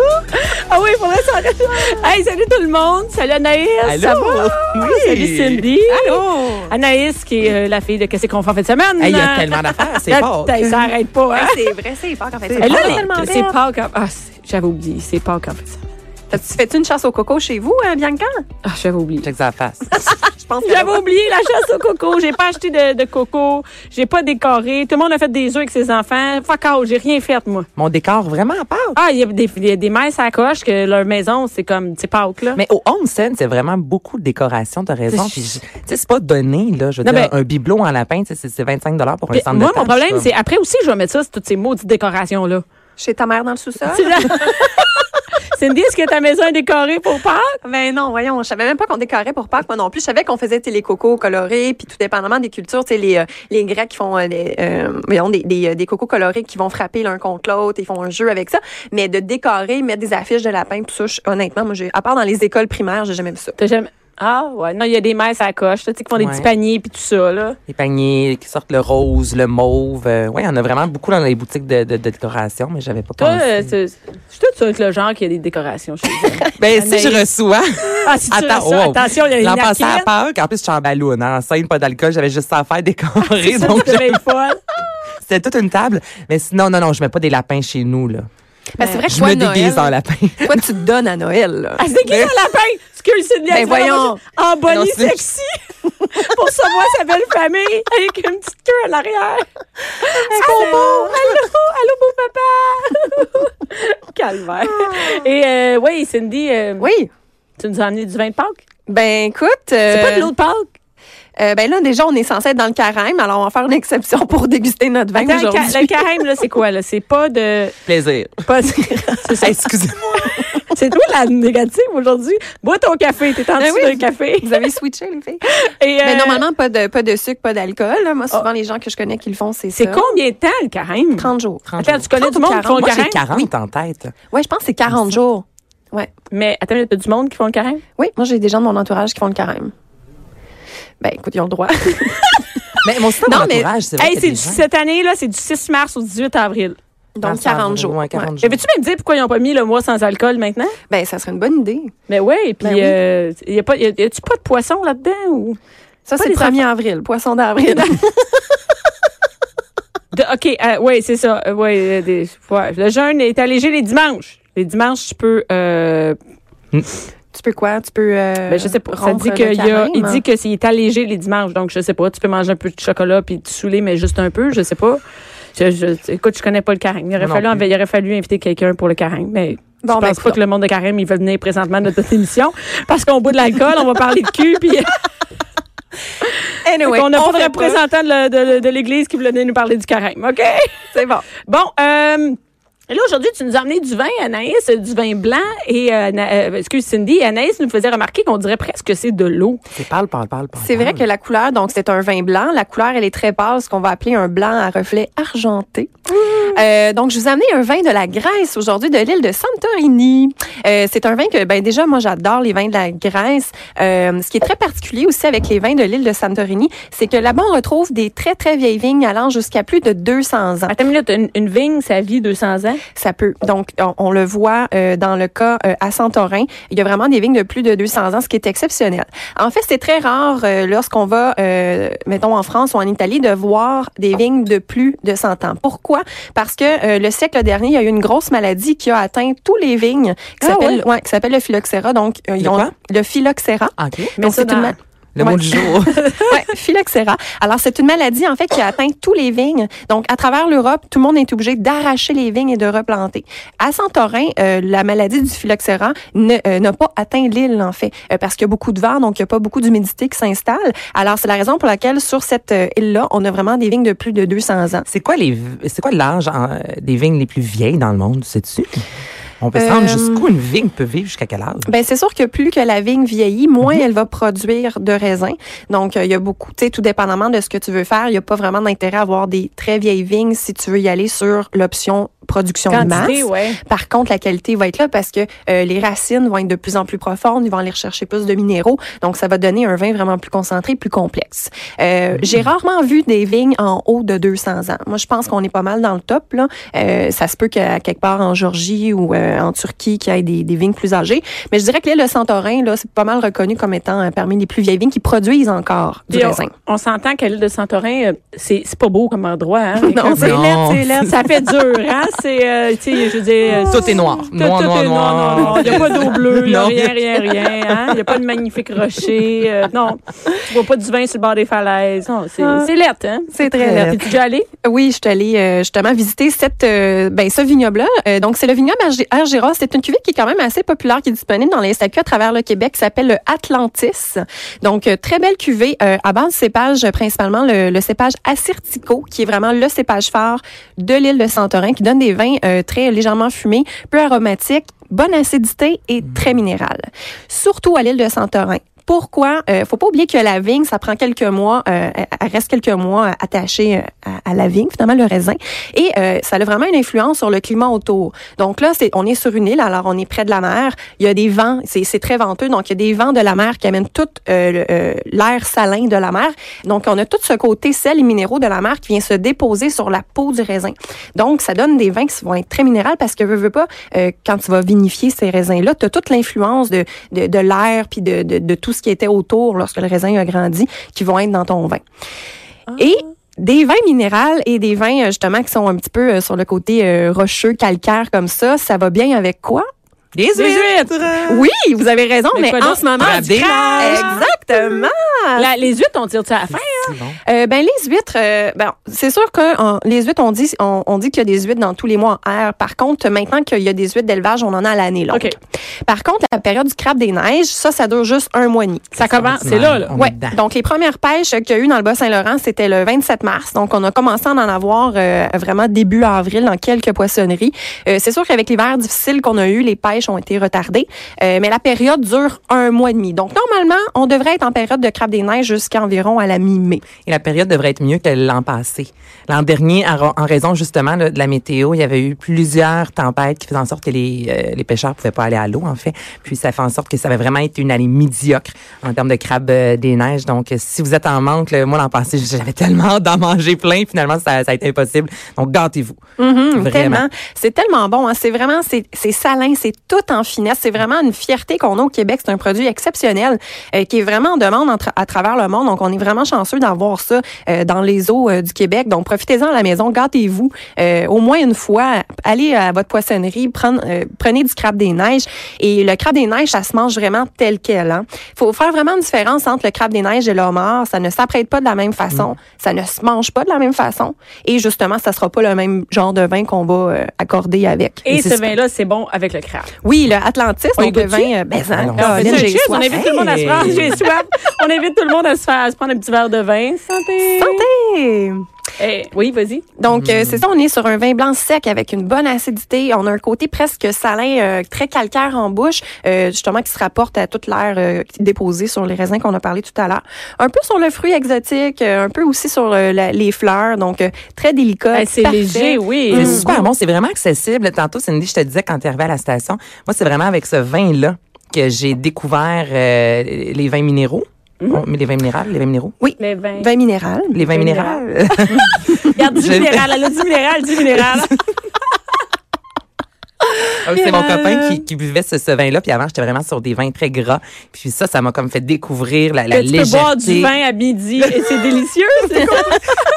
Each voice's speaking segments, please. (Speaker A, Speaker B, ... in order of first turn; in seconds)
Speaker A: 0.3-11.6, 12.6-15.8, 18.6-19.3, 20.6-27.7, 28.9-32.6, 35.1-35.4, 37.0-37.3, 39.3-42.6, 43.9-44.9, 45.5-47.5, 63.6-67.6, 73.2-77.2, 78.0-80.1, 83.4-84.6, 91.8-99.5, 100.0-106.9, 107.6-108.6, 109.9-110.7, 115.2-117.8, 119.2-119.5, 120.7-124.7, 125.4-126.4, 129.7-133.2, 136.3-137.8, 144.0-146.8, 148.4-150.7, 152.1-155.6, 156.2-156.6, 157.7-158.0, 160.1-166.2, 168.5-175.0, 175.5-184.9, 186.8-190.7, 191.4-192.4, 192.9-199.6, 220.7-222.8, 240.4-240.8, 244.2-244.8, 245.8-246.4, 282.7-283.6, 306.1-310.3, 311.0-324.5, 390.4-390.9, 392.3-394.2, 395.4-396.9, 408.9-409.9, 478.0-479.7, 480.8-481.3, 481.9-487.6, 488.8-489.6, 504.9-506.5, 516.2-516.7, 517.4-518.0, 519.0-521.4, 529.5-532.8
Speaker B: 3.8-5.6, 9.0-10.6, 12.5-13.3, 19.2-20.1, 27.8-29.0, 32.5-40.3, 66.2-66.5, 67.7-73.7, 76.6-84.2, 85.2-88.3, 89.1-90.7, 92.1-92.3, 94.7-95.2, 117.8-118.4, 119.4-120.4, 131.7-132.0, 132.8-134.1, 134.9-135.2, 142.8-144.6, 147.2-148.6, 177.2-177.6, 199.7-201.0, 242.4-242.7, 243.8-244.2, 245.1-246.0, 264.9-268.8, 269.4-271.7, 282.8-283.1, 310.0-311.1, 313.5-318.1, 390.1-391.5, 393.0-394.3, 396.5-397.2, 409.1-410.4, 427.0-446.0, 446.5-447.1, 478.1-478.5, 481.7-484.0, 489.9-490.4, 506.1-515.9, 517.3-519.9, 523.8-530.5
Speaker C: 5.9-6.7, 11.3-13.6, 16.3-18.4, 19.9-21.0, 43.0-44.6, 47.6-63.5, 88.8-91.8, 93.5-94.2, 100.1-101.4, 106.8-107.1, 108.9-110.3, 111.4-116.0, 118.5-119.5, 123.6-125.4, 126.0-130.2, 131.2-133.5, 134.3-136.1, 138.0-139.7, 141.0-142.5, 143.2-143.7, 147.2-148.3, 150.9-151.9, 152.6-152.9, 156.1-158.3, 167.3-170.2, 179.8-180.4, 186.6-187.8, 190.9-191.3, 200.6-205.9, 206.5-220.8, 223.0-245.5, 246.3-264.9, 269.6-270.2, 271.6-306.5, 309.8-311.1, 322.4-322.7, 323.3-324.0, 324.6-381.8, 382.8-389.7, 391.3-395.5, 397.2-405.3, 405.9-409.0, 409.9-426.8, 446.2-478.0, 479.8-483.0, 487.4-488.4, 489.8-506.7, 516.0-517.5, 523.9-524.7, 532.5-532.8